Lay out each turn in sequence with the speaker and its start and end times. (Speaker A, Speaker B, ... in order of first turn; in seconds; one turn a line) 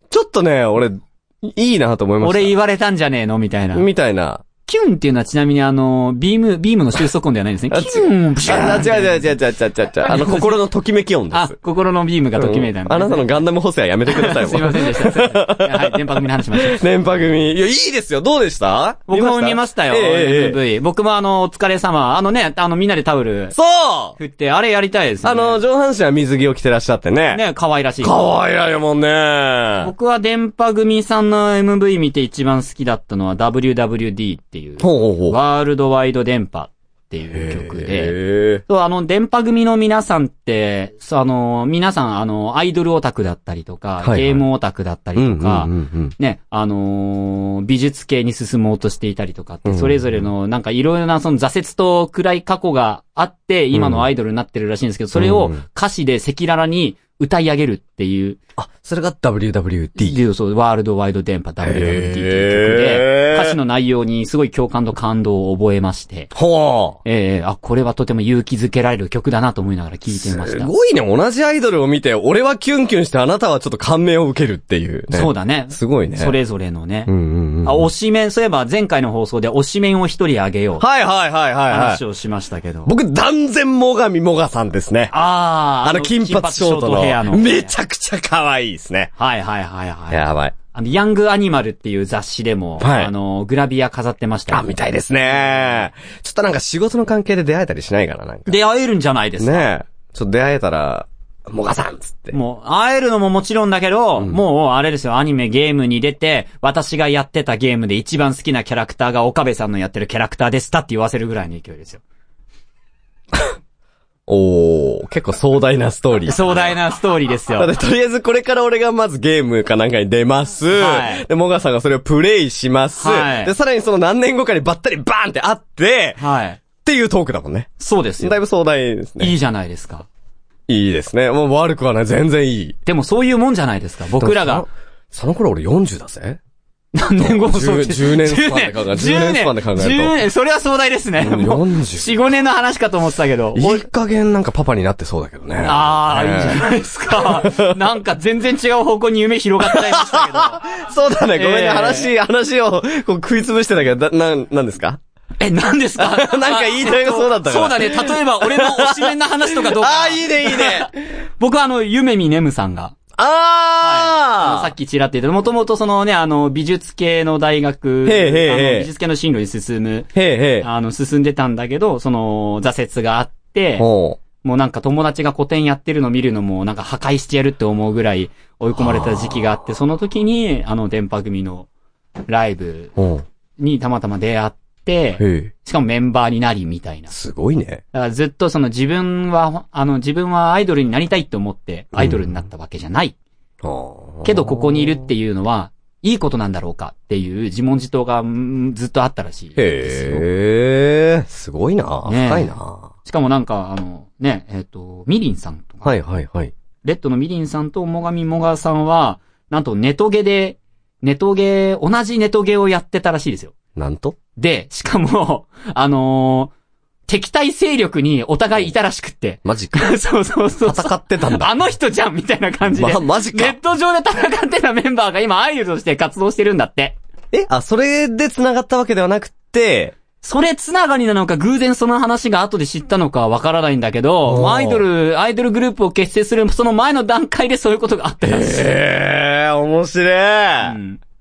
Speaker A: 0.1-2.5
Speaker B: 2.2-3.9
Speaker A: 3.7-4.4
Speaker B: 4.7-9.3
Speaker A: 7.7-11.5
Speaker B: 10.0-10.6
Speaker B: 11.3-13.4
Speaker A: 12.3-20.6
Speaker B: 14.1-16.8
Speaker B: 19.1-23.5
Speaker A: 23.5-24.2
Speaker B: 24.2-25.6
Speaker A: 25.2-27.4
Speaker B: 27.3-28.2
Speaker A: 28.0-29.9
Speaker B: 29.8-58.4
Speaker A: 34.8-35.4
Speaker A: 37.3-38.6
Speaker A: 44.0-44.4
Speaker A: 45.1-46.1
Speaker A: 49.6-50.3
Speaker A: 53.7-54.0
Speaker A: 55.1-55.6
Speaker A: 58.6-60.2
Speaker B: 60.0-66.3
Speaker A: 61.6-63.6
Speaker A: 66.3-67.0
Speaker B: 67.0-70.7
Speaker A: 70.1-76.3
Speaker B: 75.1-77.1
Speaker A: 77.0-77.9
Speaker B: 77.6-80.8
Speaker A: 80.8-82.0
Speaker B: 81.7-82.9
Speaker A: 82.8-85.1
Speaker B: 85.1-87.7
Speaker A: 85.8-89.1
Speaker B: 89.2-94.6
Speaker A: 90.1-90.5
Speaker A: 92.8-93.1
Speaker A: 94.5-98.6
Speaker B: 95.3-95.9
Speaker B: 98.5-99.7
Speaker A: 99.4-102.4
Speaker B: 102.3-112.0
Speaker A: 114.3-116.8
Speaker B: 116.3-117.7
Speaker A: 117.5-126.2
Speaker B: 120.7-121.2
Speaker B: 123.0-123.5
Speaker B: 126.2-126.6
Speaker A: 126.8-129.3
Speaker B: 127.8-128.4
Speaker B: 129.2-130.1
Speaker A: 130.7-132.8
Speaker B: 132.8-134.7
Speaker A: 134.2-136.4
Speaker B: 136.9-143.8
Speaker A: 137.2-140.1
Speaker A: 141.2-142.2
Speaker A: 143.5-147.8
Speaker B: 145.6-150.6
Speaker A: 149.6-155.0
Speaker B: 151.3-152.1
Speaker B: 155.4-162.9
Speaker A: 156.0-161.0
Speaker A: 163.2-164.7
Speaker B: 163.8-170.1
Speaker A: 168.0-168.9
Speaker A: 170.1-170.7
Speaker B: 170.6-173.9
Speaker A: 173.8-174.2
Speaker B: 174.4-181.7
Speaker A: 178.8-179.5
Speaker B: 182.3-182.9
Speaker A: 182.9-183.2
Speaker B: 183.6-187.1
Speaker A: 185.2-185.5
Speaker A: 187.1-187.8
Speaker B: 187.9-193.1
Speaker A: 191.9-192.3
Speaker A: 193.6-195.1
Speaker B: 194.2-200.3
Speaker A: 199.6-202.9
Speaker B: 202.0-202.5
Speaker B: 203.0-205.9
Speaker A: 205.8-206.5
Speaker B: 206.8-213.5
Speaker A: 213.8-214.2
Speaker B: 214.4-216.5
Speaker B: 217.1-227.0
Speaker A: 219.4-219.9
Speaker A: 220.6-221.5
Speaker A: 222.7-223.6
Speaker A: 227.3-229.9
Speaker B: 230.2-238.7
Speaker A: 234.2-234.8
Speaker A: 238.2-240.8
Speaker B: 240.6-241.0